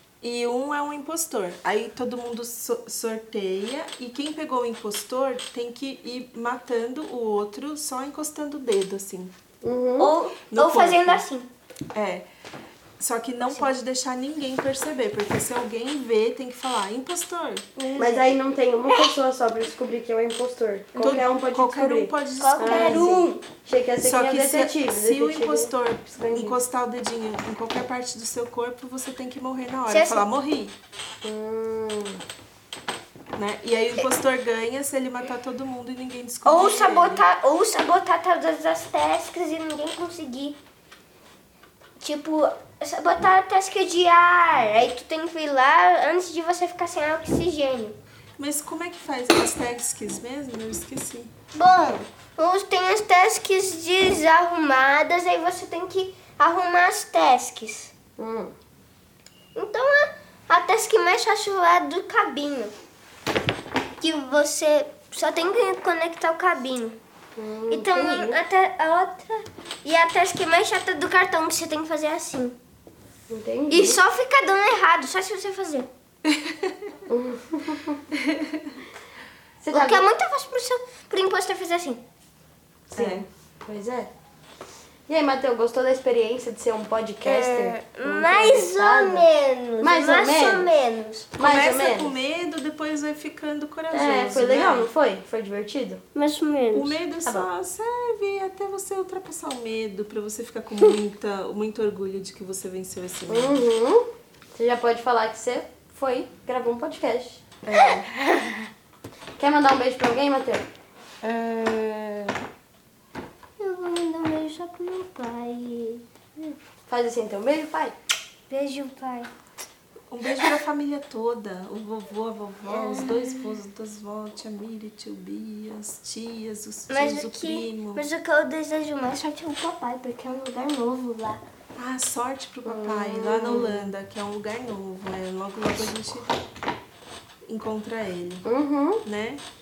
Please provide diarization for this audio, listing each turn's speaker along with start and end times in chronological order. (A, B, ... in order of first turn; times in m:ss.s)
0:00.2-0:09.3 A
0:09.6-0:10.2 B
0:10.0-0:11.5 C
0:10.4-0:11.2 A
0:11.9-0:12.3 A
0:13.0-0:17.6 A
0:13.4-0:13.7 C
0:17.8-0:18.4 C
0:18.0-0:26.6 B
0:18.9-0:19.2 C
0:20.9-0:21.2 C
0:21.0-0:23.3 A
0:22.4-0:23.4 C
0:24.0-0:30.7 A
0:29.9-0:30.3 C
0:31.2-0:32.2 B
0:33.3-0:37.2 A
0:36.4-0:40.6 C
0:42.0-0:48.0 C
0:48.4-0:51.3 A
0:51.5-0:57.9 C
0:58.2-0:58.5 B
0:59.5-1:02.7 C
1:04.0-1:07.0 C
1:07.4-1:08.4 B
1:07.7-1:12.6 C
1:13.3-1:14.0 B
1:13.7-1:15.9 C
1:16.3-1:16.7 A
1:17.1-1:18.0 B
1:18.3-1:18.6 A
1:19.6-1:20.1 B
1:19.7-1:22.0 C
1:22.9-1:24.1 B
1:23.0-1:23.2 A
1:25.1-1:29.3 B
1:27.2-1:31.3 C
1:29.8-1:30.7 B
1:31.4-1:32.2 B
1:31.4-1:34.9 A
1:33.9-1:36.0 B
1:36.1-1:37.0 C
1:36.7-1:43.7 A
1:43.3-1:44.0 B
1:44.6-1:47.4 B
1:47.6-1:48.1 A
1:48.0-1:48.6 C
1:49.4-1:50.6 B
1:51.2-1:52.3 C
1:53.6-1:56.0 C
1:56.9-1:57.9 B
1:58.5-1:59.3 C
2:00.1-2:08.1 A
2:02.7-2:03.6 C
2:06.9-2:11.4 C
2:11.8-2:16.4 A
2:12.6-2:13.9 B
2:17.5-2:18.5 A
2:18.4-2:19.0 B
2:19.0-2:19.4 A